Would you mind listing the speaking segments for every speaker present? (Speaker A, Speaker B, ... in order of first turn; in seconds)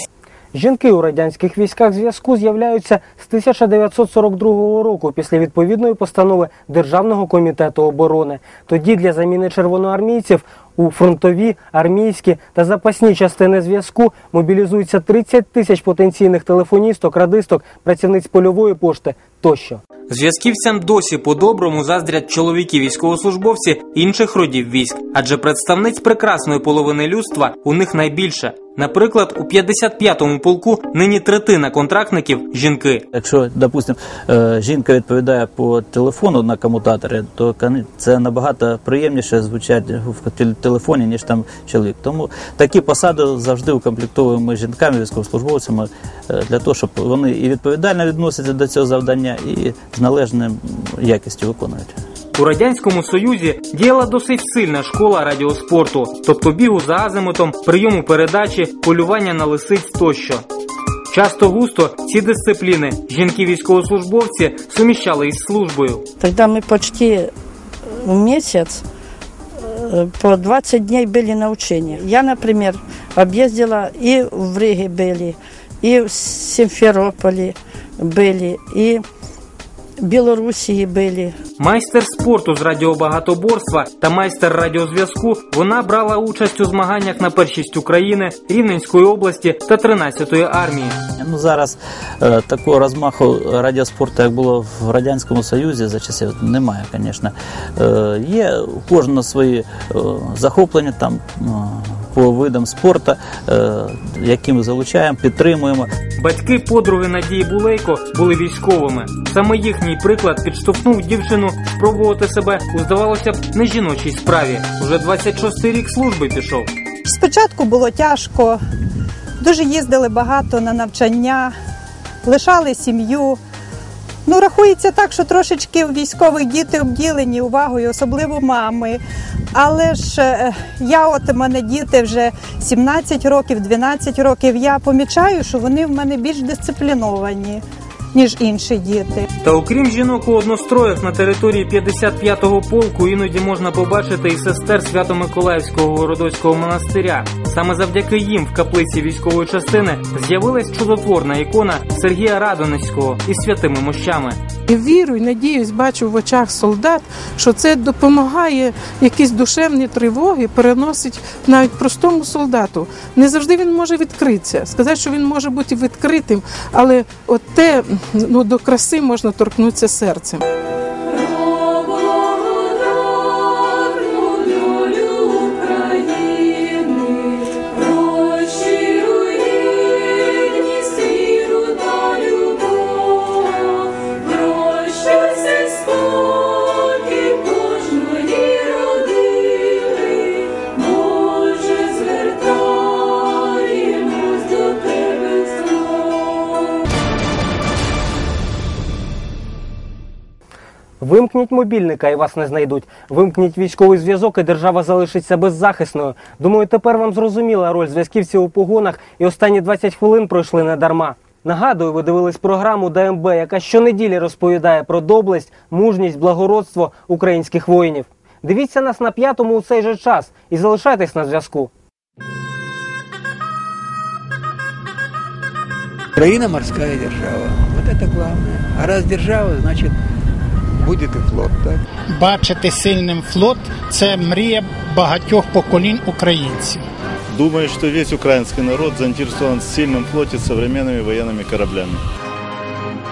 Speaker A: 0.5-19.8, 201.0-221.7
Speaker B: 20.1-33.0, 52.3-60.5, 61.1-66.0, 81.6-91.0, 106.2-116.7, 139.4-154.4
Speaker C: 33.1-51.9, 91.2-105.9
Speaker D: 66.2-67.3, 68.0-68.8, 69.6-79.0, 80.0-81.4
Speaker E: 117.0-118.6, 119.4-121.6, 122.2-123.4, 124.2-129.0, 129.5-139.2
Speaker F: 154.7-170.4, 172.0-172.5, 173.6-179.4
Speaker G: 226.2-229.9, 230.8-231.8
Speaker H: 232.1-236.8
Speaker I: 237.3-242.0